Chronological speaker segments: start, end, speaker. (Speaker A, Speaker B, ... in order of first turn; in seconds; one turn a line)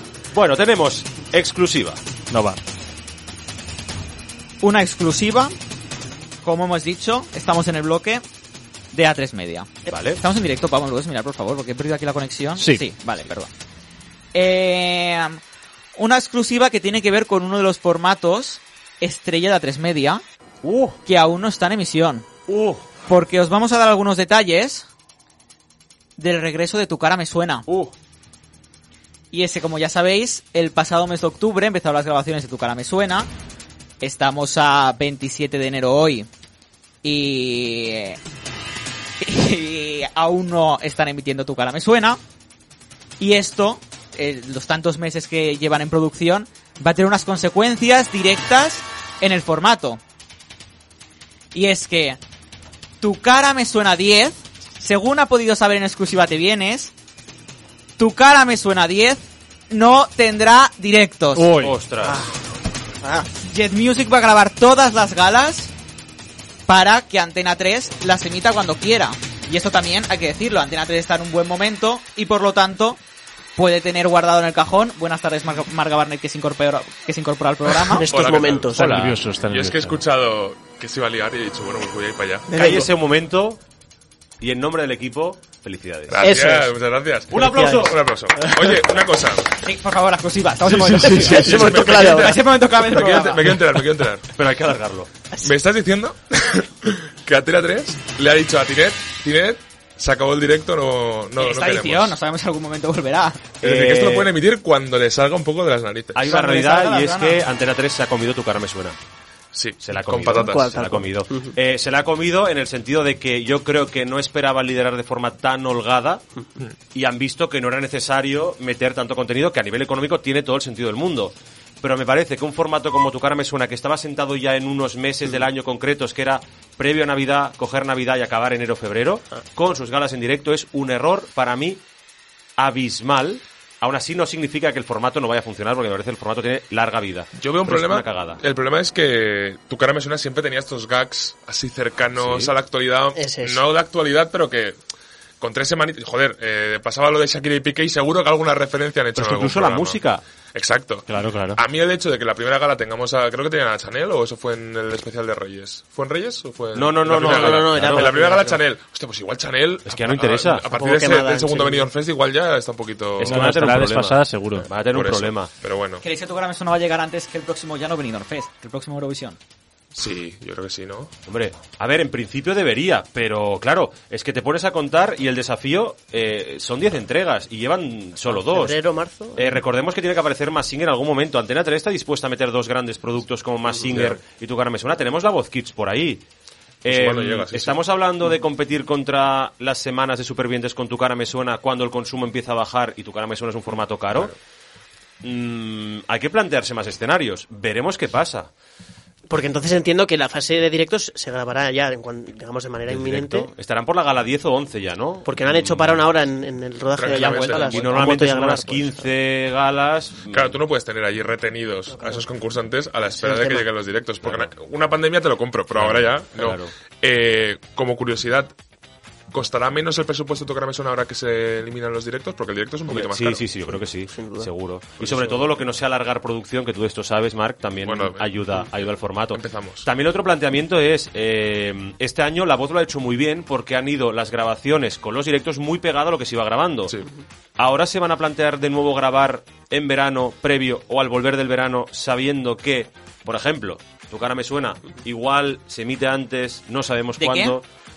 Speaker A: 0.3-2.0
Speaker B: 2.3-2.6
Speaker C: 4.6-5.5
Speaker C: 6.4-8.2
Speaker C: 8.9-13.5
Speaker A: 9.9-10.2
Speaker B: 12.6-12.8
Speaker C: 14.3-15.4
Speaker C: 15.9-20.2
Speaker A: 20.6-21.0
Speaker C: 21.1-22.3
Speaker A: 22.5-22.9
Speaker C: 23.1-24.9
Speaker C: 26.2-27.6
Speaker A: 27.7-27.9
Speaker C: 29.3-33.3
Speaker C: 34.0-36.3
Speaker C: 37.0-38.2
Speaker C: 39.2-42.2
Speaker C: 43.2-50.0
Speaker C: 51.5-52.2
Speaker C: 53.0-56.9
Speaker C: 58.0-61.5
Speaker B: 61.3-61.8
Speaker A: 61.6-62.3
Speaker D: 62.0-62.4
Speaker D: 63.0-63.3
Speaker C: 63.4-65.7
Speaker C: 66.7-73.0
Speaker C: 73.5-78.1
Speaker D: 77.8-79.1
Speaker E: 78.1-82.5
Speaker B: 78.7-80.0
Speaker D: 82.5-82.9
Speaker A: 82.5-83.6
Speaker A: 84.4-86.3
Speaker E: 86.1-89.6
Speaker D: 86.2-86.7
Speaker A: 87.3-88.0
Speaker D: 87.3-87.9
Speaker C: 89.6-93.4
Speaker D: 91.1-92.4
Speaker E: 91.2-94.3
Speaker A: 92.9-93.4
Speaker A: 94.3-95.1
Speaker E: 95.4-102.2
Speaker C: 101.4-103.6
Speaker E: 103.6-106.3
Speaker A: 103.6-104.4
Speaker A: 106.2-109.0
Speaker C: 106.3-107.4
Speaker E: 109.5-110.8
Speaker A: 109.8-116.2
Speaker D: 110.3-111.5
Speaker A: 116.9-131.8
Speaker A: 132.6-138.4
Speaker E: 137.4-144.8
Speaker A: 142.2-142.5
Speaker D: 143.2-143.6
Speaker E: 145.4-150.0
Speaker A: 149.2-150.2
Speaker E: 150.5-163.3
Speaker B: 151.1-151.6
Speaker A: 156.7-158.1
Speaker D: 157.1-158.6
Speaker A: 159.8-160.7
Speaker D: 160.7-161.9
Speaker A: 163.2-165.5
Speaker B: 163.2-164.7
Speaker E: 164.9-166.0
Speaker C: 166.0-169.4
Speaker E: 169.9-171.1
Speaker A: 171.3-178.8
Speaker D: 178.3-179.6
Speaker A: 179.3-186.2
Speaker E: 183.8-184.2
Speaker A: 186.8-194.3
Speaker E: 186.9-187.8
Speaker A: 195.2-198.5
Speaker D: 199.3-203.5
Speaker A: 202.9-206.0
Speaker D: 205.2-209.1
Speaker E: 207.0-208.0
Speaker A: 207.1-210.6
Speaker E: 210.3-218.5
Speaker D: 211.9-212.2
Speaker D: 213.2-213.7
Speaker A: 214.2-214.5
Speaker A: 215.7-216.7
Speaker E: 219.3-223.4
Speaker A: 222.9-236.9
Speaker D: 224.1-224.5
Speaker E: 225.0-225.4
Speaker E: 227.8-228.7
Speaker E: 229.3-229.9
Speaker A: 237.6-247.7
Speaker C: 247.2-247.6